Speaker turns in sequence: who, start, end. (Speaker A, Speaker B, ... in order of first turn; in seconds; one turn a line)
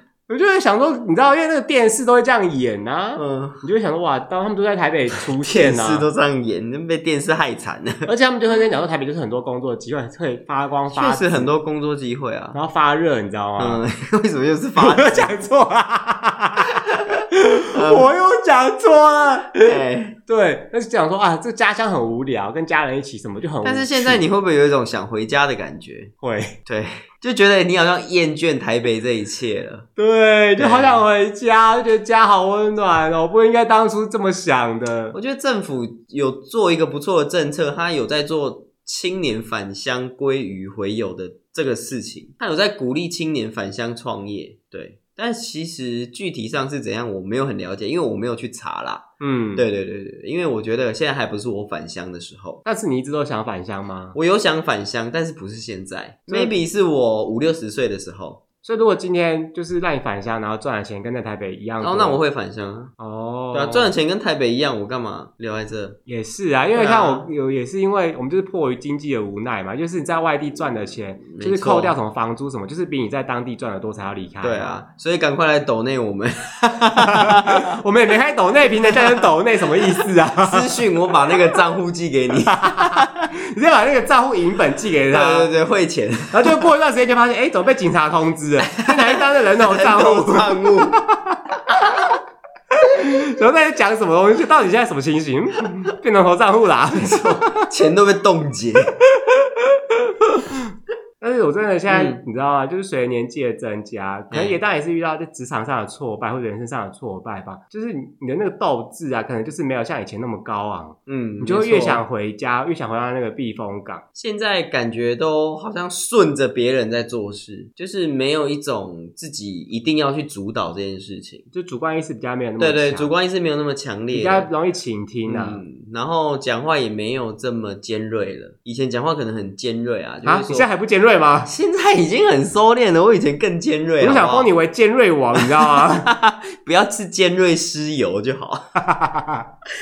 Speaker A: 0.3-6.0
Speaker B: 3.2-3.6
Speaker B: 5.1-8.1
Speaker A: 8.1-11.5
Speaker B: 10.9-12.6
Speaker A: 12.5-13.8
Speaker B: 13.6-15.3
Speaker A: 14.8-19.8
Speaker B: 16.7-18.1
Speaker B: 19.6-20.2
Speaker A: 20.3-24.2
Speaker B: 23.6-26.1
Speaker A: 26.2-26.5
Speaker B: 26.6-29.9
Speaker A: 29.9-35.1
Speaker B: 30.6-31.0
Speaker B: 35.1-52.6
Speaker A: 49.2-49.6
Speaker A: 52.6-54.2
Speaker B: 54.1-58.4
Speaker A: 56.3-56.6
Speaker A: 58.6-62.2
Speaker B: 61.8-62.9
Speaker A: 63.0-63.9
Speaker B: 63.5-66.0
Speaker A: 66.0-74.8
Speaker B: 66.7-67.3
Speaker B: 71.3-72.0
Speaker B: 74.4-77.8
Speaker A: 77.0-80.7
Speaker B: 78.7-83.3
Speaker A: 82.5-85.5
Speaker B: 85.1-86.6
Speaker A: 86.3-92.1
Speaker B: 88.8-91.0
Speaker A: 92.7-97.7
Speaker B: 97.0-98.9
Speaker A: 99.1-99.7
Speaker A: 101.2-114.0
Speaker B: 101.9-102.2
Speaker B: 104.3-104.5
Speaker B: 111.1-112.0
Speaker B: 114.1-121.5
Speaker A: 121.5-123.1
Speaker B: 122.6-124.5
Speaker A: 124.1-125.6
Speaker B: 125.2-130.7
Speaker A: 130.2-131.5
Speaker B: 131.4-134.5
Speaker A: 134.0-136.1
Speaker B: 135.3-138.6
Speaker A: 138.8-139.5